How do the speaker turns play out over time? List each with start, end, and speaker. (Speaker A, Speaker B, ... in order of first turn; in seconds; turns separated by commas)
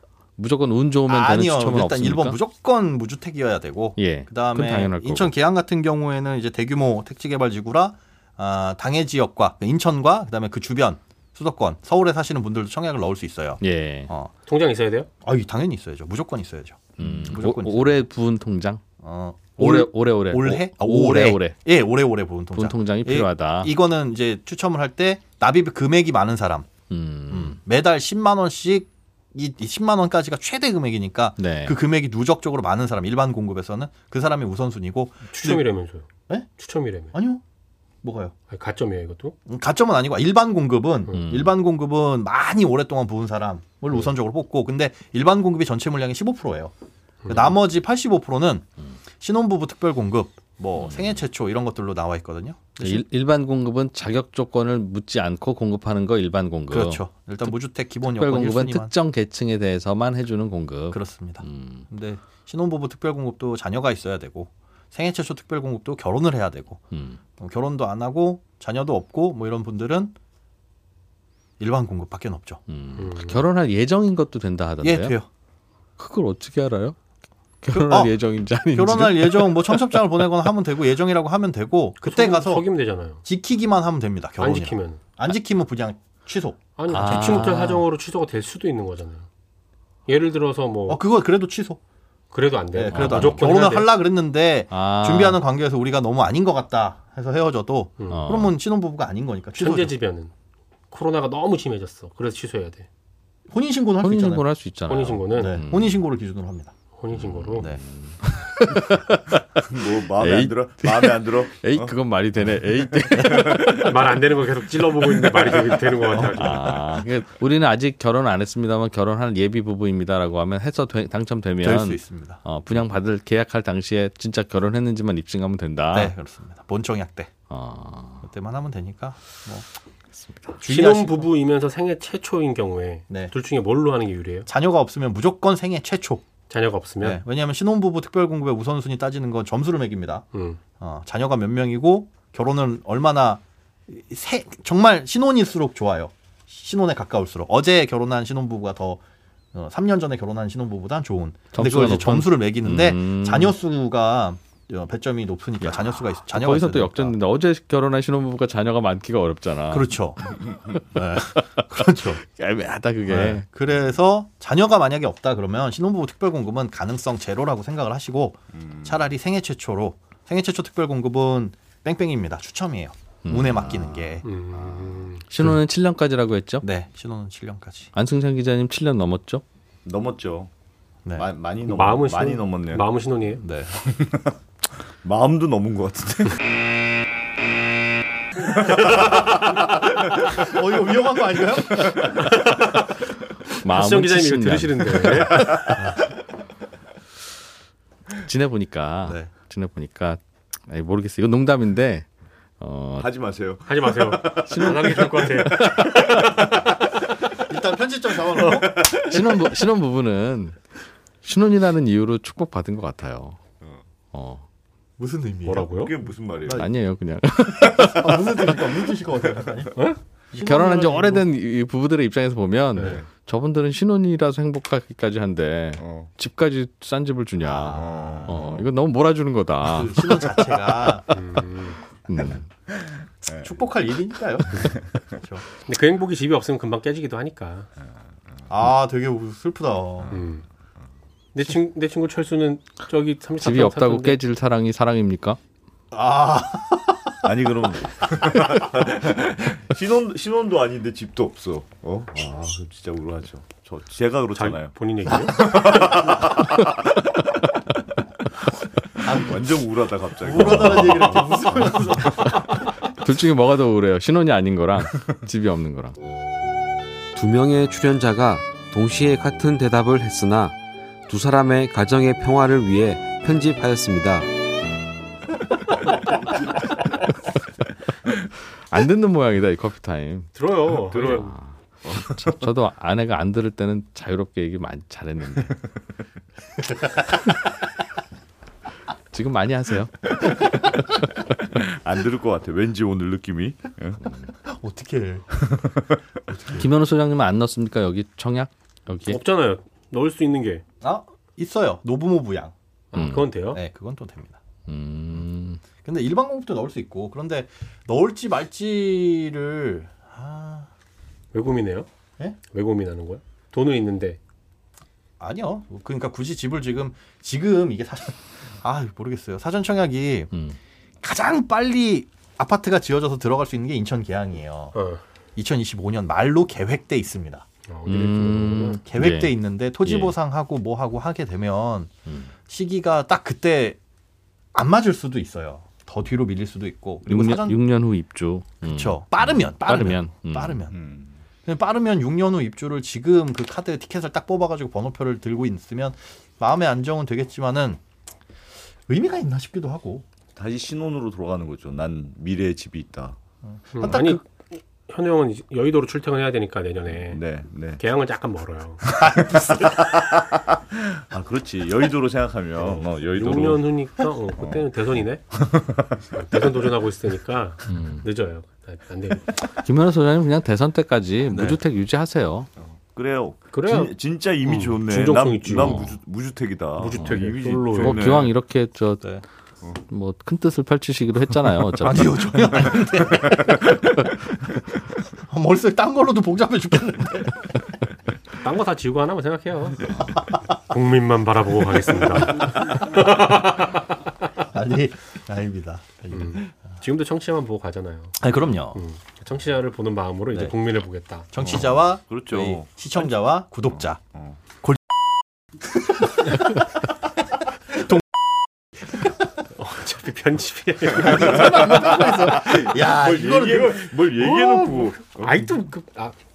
Speaker A: 0.4-2.4, Speaker B: 1.1-14.3, Speaker A: 4.0-5.3, Speaker A: 13.6-14.1, Speaker C: 14.5-15.1, Speaker B: 15.2-18.0, Speaker A: 17.0-18.8, Speaker B: 19.0-26.7, Speaker A: 19.6-21.6, Speaker A: 22.6-23.7, Speaker A: 26.9-27.6, Speaker B: 27.3-35.6, Speaker A: 31.4-31.8, Speaker C: 35.3-36.1, Speaker C: 36.6-37.1, Speaker B: 37.1-37.4, Speaker B: 38.0-38.3, Speaker C: 38.5-39.4, Speaker B: 39.5-46.7, Speaker A: 41.1-41.5, Speaker C: 47.2-47.5, Speaker B: 47.3-48.7, Speaker B: 49.2-53.0, Speaker A: 50.8-51.1, Speaker A: 52.8-57.0, Speaker B: 56.7-58.9, Speaker A: 58.0-61.8, Speaker B: 60.9-66.8, Speaker A: 66.9-67.2, Speaker B: 67.4-70.1, Speaker B: 71.6-72.6, Speaker A: 72.7-75.2, Speaker C: 73.0-73.4, Speaker B: 74.8-75.3, Speaker A: 76.0-77.0, Speaker A: 77.6-80.0, Speaker B: 77.7-78.1, Speaker B: 78.7-82.7, Speaker C: 82.0-83.2, Speaker B: 83.2-87.5, Speaker C: 84.4-85.0, Speaker C: 86.8-89.2, Speaker A: 86.9-87.8, Speaker C: 90.1-91.0, Speaker B: 90.9-91.8, Speaker C: 92.3-93.9, Speaker B: 92.7-99.9, Speaker A: 92.9-93.5, Speaker A: 94.7-95.4, Speaker C: 98.0-98.3, Speaker A: 98.1-98.5, Speaker C: 99.6-100.3, Speaker C: 100.9-102.9, Speaker B: 103.5-104.5, Speaker A: 104.0-106.0, Speaker C: 104.9-105.6, Speaker B: 105.3-106.7, Speaker C: 107.0-107.7, Speaker A: 107.1-109.4, Speaker D: 109.7-111.9, Speaker A: 110.2-113.9, Speaker D: 113.3-113.8, Speaker C: 113.6-117.0, Speaker D: 115.4-115.8, Speaker A: 116.2-126.1, Speaker B: 121.6-122.4, Speaker B: 125.9-127.3, Speaker A: 127.5-128.2, Speaker B: 128.2-129.6, Speaker A: 130.2-130.5, Speaker B: 130.6-131.3, Speaker C: 130.6-134.5, Speaker B: 134.5-136.3, Speaker C: 136.5-137.2, Speaker B: 137.0-140.2, Speaker C: 140.3-140.6, Speaker B: 140.8-149.0, Speaker B: 149.5-157.1, Speaker A: 151.5-153.6, Speaker A: 155.6-159.9, Speaker B: 159.7-160.3, Speaker B: 160.9-162.2, Speaker A: 161.6-163.4, Speaker B: 163.1-174.2, Speaker A: 173.2-173.9, Speaker C: 174.2-175.2, Speaker A: 175.2-176.7, Speaker B: 176.6-177.9, Speaker A: 177.9-179.4, Speaker D: 179.8-180.5, Speaker D: 181.1-182.8, Speaker C: 181.6-183.4, Speaker B: 183.4-183.8, Speaker D: 183.8-184.3, Speaker D: 185.0-186.4, Speaker D: 188.6-189.8, Speaker B: 188.8-192.2, Speaker C: 192.0-193.0, Speaker C: 193.6-195.8, Speaker A: 193.6-195.5, Speaker A: 198.2-202.1, Speaker B: 199.0-199.3, Speaker A: 202.6-203.1, Speaker D: 203.0-205.8, Speaker C: 203.7-206.7, Speaker A: 204.4-206.4, Speaker B: 207.4-209.2, Speaker A: 209.0-210.6, Speaker A: 211.2-213.4, Speaker A: 214.1-214.4, Speaker B: 215.0-215.8, Speaker C: 215.4-215.9, Speaker D: 215.7-216.7, Speaker B: 216.4-216.7, Speaker A: 216.6-218.3, Speaker B: 217.7-221.3, Speaker A: 220.3-230.2, Speaker C: 222.8-223.0, Speaker D: 225.8-226.1, Speaker B: 227.4-228.5, Speaker D: 227.7-228.6, Speaker B: 229.6-231.0, Speaker C: 231.1-231.8, Speaker A: 232.1-232.5, Speaker D: 232.7-233.5, Speaker B: 233.4-235.4, Speaker D: 234.7-235.0, Speaker C: 235.7-237.7, Speaker B: 238.5-240.2, Speaker C: 240.1-240.4, Speaker C: 241.3-244.2, Speaker A: 243.4-245.4, Speaker B: 245.9-247.2, Speaker D: 247.2-256.9, Speaker C: 254.3-256.1, Speaker B: 259.0-259.5, Speaker D: 259.1-262.0, Speaker B: 260.2-262.4, Speaker C: 261.1-261.4, Speaker A: 263.0-265.9, Speaker E: 267.1-270.6, Speaker E: 271.1-274.3, Speaker A: 278.7-280.3, Speaker C: 280.3-281.3, Speaker D: 280.9-281.3, Speaker A: 281.1-285.6, Speaker D: 281.8-282.4, Speaker B: 286.7-287.0, Speaker A: 289.1-290.7, Speaker D: 291.5-294.1, Speaker B: 294.3-295.3, Speaker D: 295.4-295.8, Speaker B: 296.3-296.6, Speaker A: 296.5-299.2, Speaker C: 299.1-300.6, Speaker B: 300.8-302.5, Speaker C: 302.9-303.6, Speaker A: 302.9-303.3, Speaker B: 303.5-304.4, Speaker A: 304.7-305.6, Speaker B: 305.8-310.7, Speaker C: 311.3-311.9, Speaker C: 312.5-314.2, Speaker B: 315.2-320.3, Speaker B: 321.0-324.7, Speaker C: 324.7-325.0, Speaker B: 325.4-327.4, Speaker C: 327.7-328.8, Speaker A: 327.9-330.1, Speaker B: 328.8-331.9, Speaker B: 332.5-333.8, Speaker B: 334.5-337.6, Speaker A: 337.1-340.6, Speaker B: 338.6-340.8, Speaker D: 340.7-341.2, Speaker B: 341.4-347.8, Speaker B: 348.9-350.1, Speaker D: 350.3-353.2, Speaker B: 353.5-354.2, Speaker C: 353.7-359.0, Speaker D: 357.0-357.8, Speaker D: 358.9-363.8, Speaker C: 362.6-365.3, Speaker D: 364.4-364.7, Speaker D: 365.3-366.1, Speaker C: 366.1-369.4, Speaker A: 367.7-368.1, Speaker A: 369.6-372.5, Speaker B: 371.3-371.6, Speaker D: 372.6-378.3, Speaker C: 373.5-375.9, Speaker A: 375.6-375.9, Speaker C: 376.8-378.2, Speaker A: 377.8-379.1, Speaker A: 379.8-382.2, Speaker B: 381.8-383.8, Speaker B: 385.2-387.7, Speaker C: 388.4-393.9, Speaker B: 392.4-392.7, Speaker B: 394.4-396.5, Speaker C: 396.1-398.2, Speaker B: 398.2-398.8, Speaker C: 398.7-401.6, Speaker B: 401.3-404.0, Speaker D: 401.4-402.7, Speaker D: 404.1-404.4, Speaker B: 405.7-406.6, Speaker C: 409.5-412.1, Speaker B: 410.9-413.9, Speaker D: 410.9-415.4, Speaker C: 414.1-416.1